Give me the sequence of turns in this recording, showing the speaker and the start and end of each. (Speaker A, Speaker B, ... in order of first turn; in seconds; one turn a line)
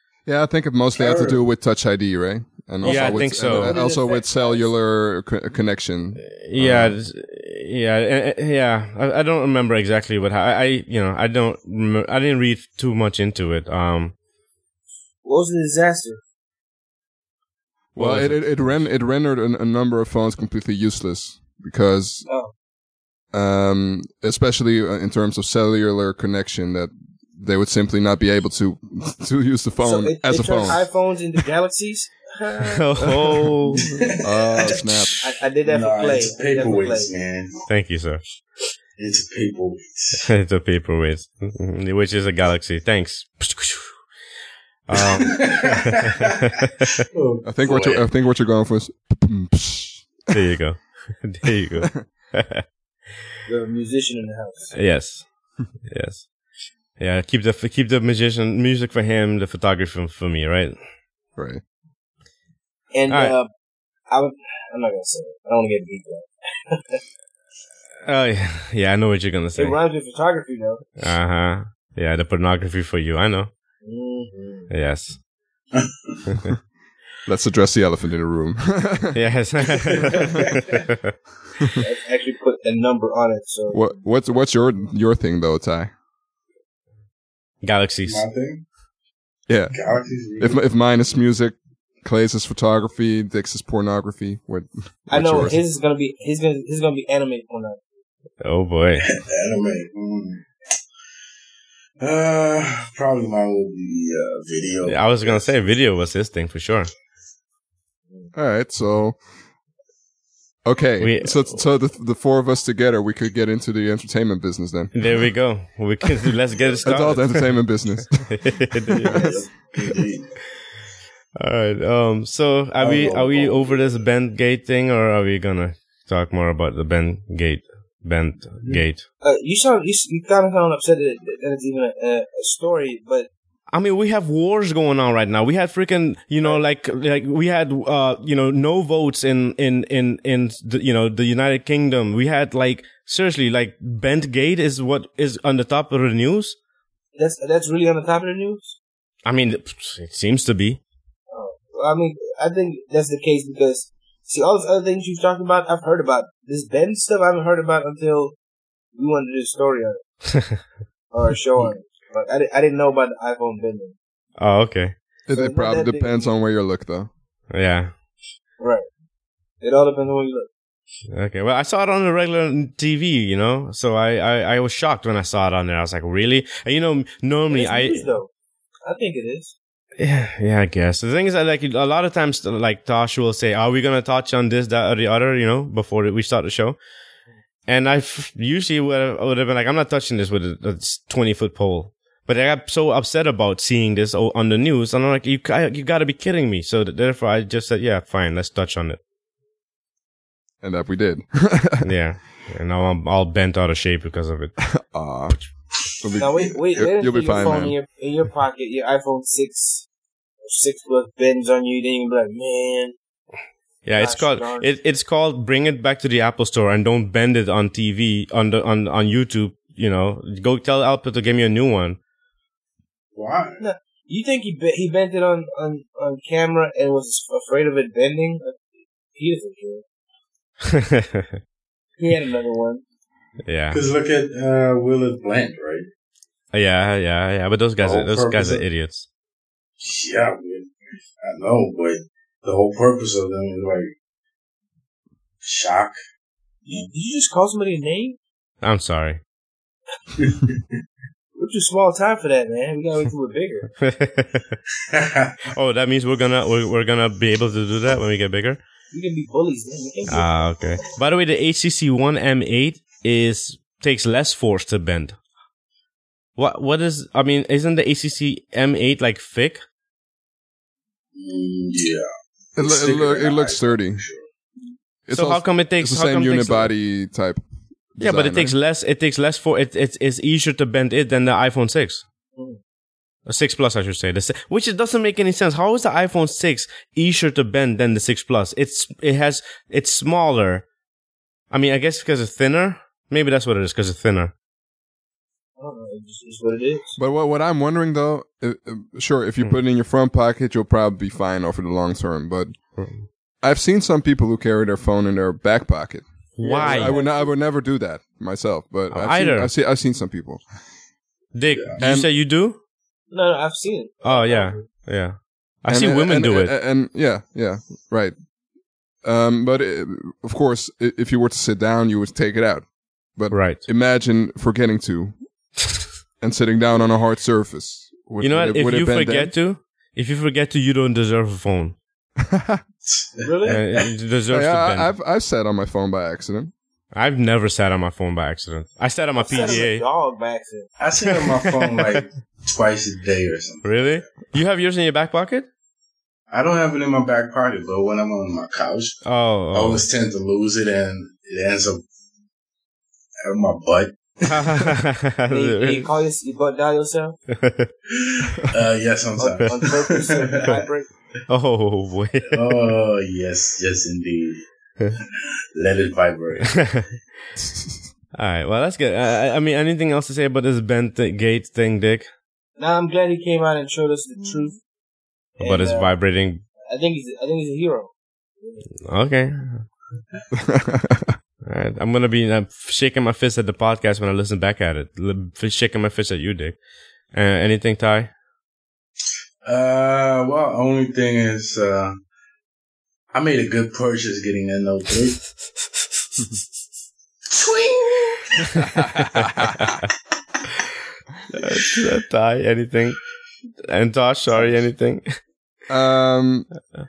Speaker A: 0.2-7.0
Speaker B: 0.9-1.4
Speaker C: 2.8-4.7
Speaker D: 2.8-3.8
Speaker D: 6.2-14.1
Speaker C: 15.2-16.2
Speaker A: 17.9-22.3
Speaker D: 18.0-18.8
Speaker C: 22.3-22.5
Speaker A: 23.3-30.8
Speaker C: 29.8-32.9
Speaker D: 32.6-33.9
Speaker B: 33.8-37.6
Speaker A: 34.2-35.2
Speaker C: 35.2-37.1
Speaker D: 37.7-38.2
Speaker B: 39.0-40.3
Speaker D: 40.2-44.0
Speaker D: 44.9-46.9
Speaker B: 44.9-46.3
Speaker B: 47.1-48.0
Speaker A: 47.4-50.4
Speaker D: 50.3-52.6
Speaker C: 53.5-54.7
Speaker D: 54.7-56.3
Speaker D: 57.0-60.8
Speaker A: 61.4-61.6
Speaker C: 62.9-63.5
Speaker D: 63.1-63.3
Speaker C: 64.1-67.0
Speaker D: 68.0-69.8
Speaker C: 69.5-70.8
Speaker D: 71.0-73.5
Speaker C: 73.8-74.7
Speaker D: 74.7-75.2
Speaker B: 75.7-76.4
Speaker A: 77.2-79.2
Speaker D: 79.1-81.1
Speaker B: 79.7-80.8
Speaker C: 81.8-83.8
Speaker A: 83.7-85.9
Speaker D: 87.6-88.2
Speaker B: 88.0-88.6
Speaker A: 89.5-89.8
Speaker B: 89.7-90.6
Speaker A: 90.4-95.6
Speaker C: 95.1-97.8
Speaker D: 98.4-99.1
Speaker B: 99.0-100.5
Speaker B: 102.0-105.5
Speaker D: 104.8-106.9
Speaker A: 108.3-109.2
Speaker A: 110.6-114.9
Speaker D: 111.0-111.6
Speaker D: 114.9-119.3
Speaker A: 116.8-119.2
Speaker C: 119.1-119.5
Speaker B: 119.1-120.3
Speaker D: 121.4-129.0
Speaker B: 122.8-123.9
Speaker C: 129.2-133.3
Speaker D: 133.7-146.6
Speaker C: 147.2-148.8
Speaker D: 149.2-150.8
Speaker C: 151.3-158.4
Speaker C: 158.9-160.0
Speaker C: 161.1-164.0
Speaker D: 164.4-164.9
Speaker A: 165.3-167.1
Speaker C: 165.3-166.3
Speaker D: 167.5-167.9
Speaker C: 168.6-168.9
Speaker C: 169.6-170.5
Speaker D: 171.1-178.1
Speaker C: 177.5-178.3
Speaker C: 178.8-179.5
Speaker D: 180.0-186.8
Speaker D: 187.7-199.0
Speaker A: 200.6-201.9
Speaker D: 201.8-204.6
Speaker A: 204.7-207.8
Speaker C: 206.2-209.9
Speaker C: 210.4-212.9
Speaker D: 213.8-222.0
Speaker C: 214.0-214.7
Speaker B: 223.1-223.6
Speaker C: 223.6-228.6
Speaker C: 229.1-229.8
Speaker D: 230.7-231.4
Speaker C: 232.0-232.8
Speaker D: 233.4-233.8
Speaker B: 233.7-235.9
Speaker D: 236.5-239.1
Speaker B: 237.8-238.6
Speaker B: 239.8-243.9
Speaker B: 245.4-245.9
Speaker C: 246.6-248.2
Speaker D: 248.6-249.2
Speaker B: 250.2-250.6
Speaker C: 251.3-253.7
Speaker D: 253.8-254.6
Speaker B: 254.9-255.5
Speaker D: 255.5-258.6
Speaker C: 258.9-260.3
Speaker D: 260.1-265.2
Speaker D: 266.4-269.6
Speaker B: 271.1-272.0
Speaker A: 272.6-274.0
Speaker B: 272.6-274.2
Speaker A: 275.1-277.4
Speaker D: 275.1-276.7
Speaker A: 277.9-278.5
Speaker D: 278.0-282.0
Speaker D: 283.2-290.6
Speaker D: 291.5-294.3
Speaker C: 295.6-297.0
Speaker A: 297.0-302.5
Speaker A: 303.4-310.4
Speaker D: 306.4-307.0
Speaker C: 306.4-307.3
Speaker D: 308.9-309.5
Speaker D: 311.3-312.6
Speaker A: 311.8-312.1
Speaker C: 313.1-314.6
Speaker D: 314.0-316.5
Speaker A: 315.7-318.1
Speaker A: 319.0-325.1
Speaker D: 323.3-323.6
Speaker A: 326.2-329.3
Speaker D: 328.2-331.8
Speaker A: 332.2-332.6
Speaker B: 332.9-333.8
Speaker C: 333.2-333.6
Speaker D: 333.4-334.9
Speaker A: 334.3-336.5
Speaker D: 336.9-339.8
Speaker C: 339.2-340.7
Speaker B: 339.3-339.6
Speaker B: 340.8-344.0
Speaker D: 343.6-345.5
Speaker B: 346.3-349.0
Speaker D: 349.0-349.8
Speaker B: 349.5-351.8
Speaker B: 353.2-354.7
Speaker D: 354.3-355.9
Speaker C: 355.3-357.2
Speaker D: 357.4-357.7
Speaker B: 357.9-360.6
Speaker C: 359.2-360.9
Speaker D: 361.3-362.6
Speaker B: 362.3-364.5
Speaker B: 365.5-366.8
Speaker D: 366.5-366.8
Speaker D: 368.1-372.1
Speaker C: 372.6-374.6
Speaker C: 375.4-375.9
Speaker D: 375.4-376.4
Speaker C: 376.7-378.7
Speaker D: 378.8-379.6
Speaker A: 380.4-381.1
Speaker D: 381.4-386.6
Speaker D: 387.1-388.1
Speaker B: 389.4-392.0
Speaker B: 393.1-395.2
Speaker B: 397.3-398.5
Speaker A: 398.6-399.7
Speaker D: 398.8-399.7
Speaker D: 401.3-403.0
Speaker D: 403.7-405.1
Speaker A: 405.7-406.5